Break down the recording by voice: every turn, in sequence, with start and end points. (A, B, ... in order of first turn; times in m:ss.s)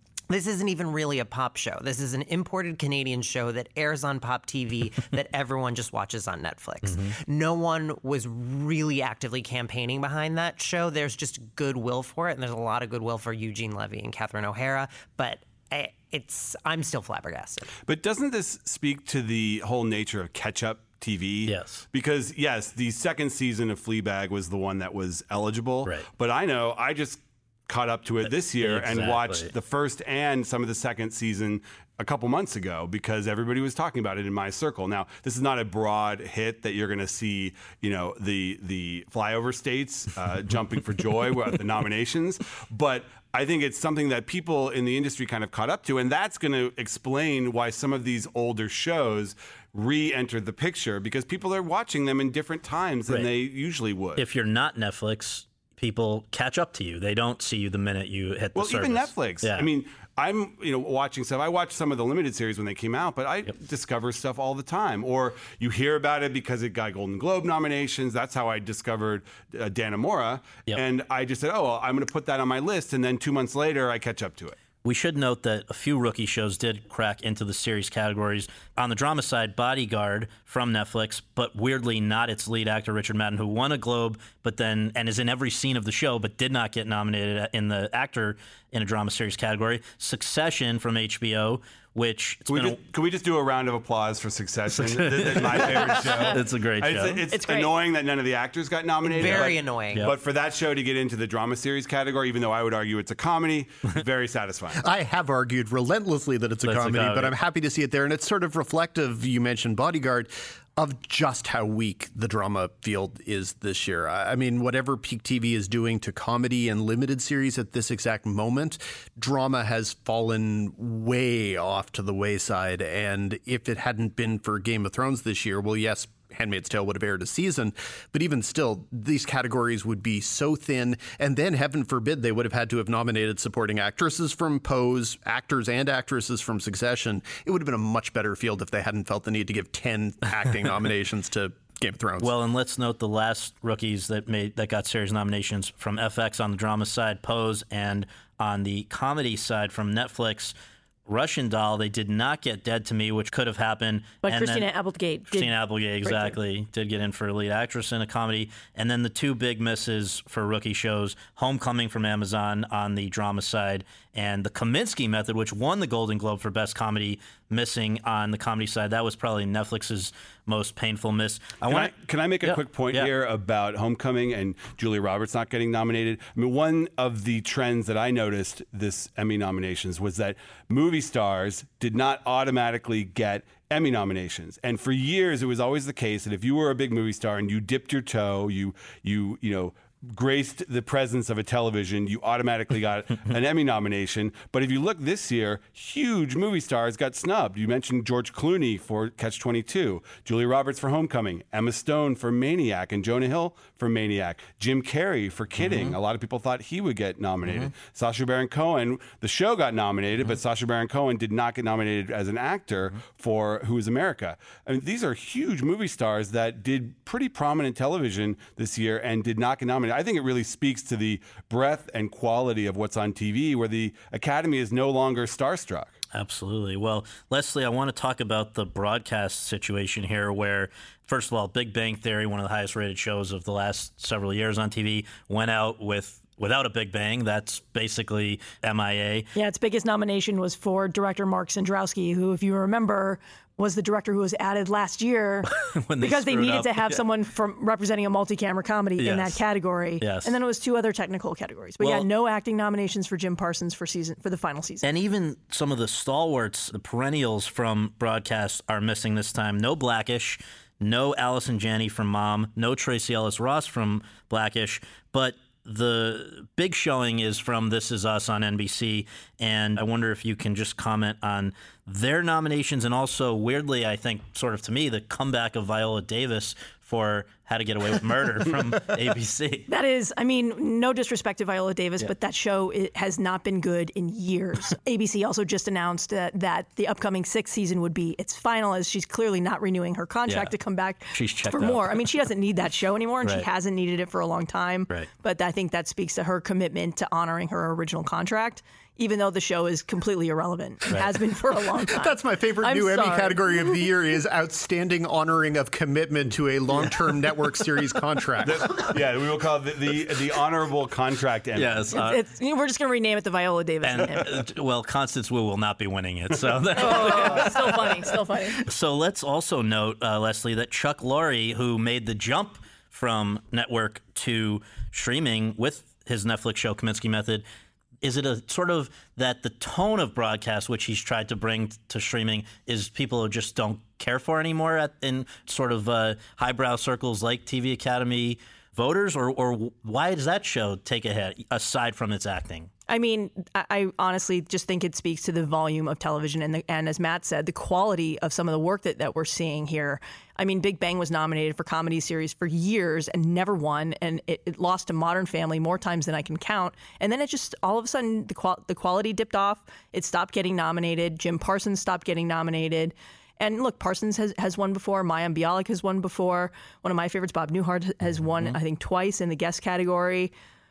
0:00.3-0:17.7 A
0:06.8-0:07.2 B
0:17.8-0:54.2 C
0:21.5-0:21.8 B
0:28.2-0:29.5 B
0:54.2-0:59.7 B
0:58.6-1:14.6 C
1:14.8-1:32.8 B
1:32.5-1:44.8 C
1:34.8-1:37.2 B
1:37.3-1:37.7 D
1:39.0-1:40.1 A
1:39.2-1:40.2 B
1:44.8-2:22.4 E
1:46.6-1:47.4 B
2:22.2-2:30.6 B
2:31.1-2:34.7 B
2:34.2-2:36.4 D
2:35.3-2:53.1 B
2:51.7-3:46.0 C
3:25.6-3:26.0 B
3:46.1-3:59.3 B
3:59.4-4:14.8 D
4:05.5-4:07.0 B
4:09.0-4:09.4 B
4:10.0-4:10.3 B
4:11.8-4:12.1 B
4:14.8-4:39.7 B
4:39.7-5:03.9 D
4:50.3-4:50.5 B
4:51.1-4:52.1 B
5:01.8-5:08.9 E
5:08.4-5:12.0 C
5:11.6-5:12.2 B
5:11.9-5:14.4 D
5:13.8-5:18.0 B
5:16.7-5:18.7 D
5:18.6-5:27.4 B
5:28.0-5:42.7 B
5:42.9-6:10.3 D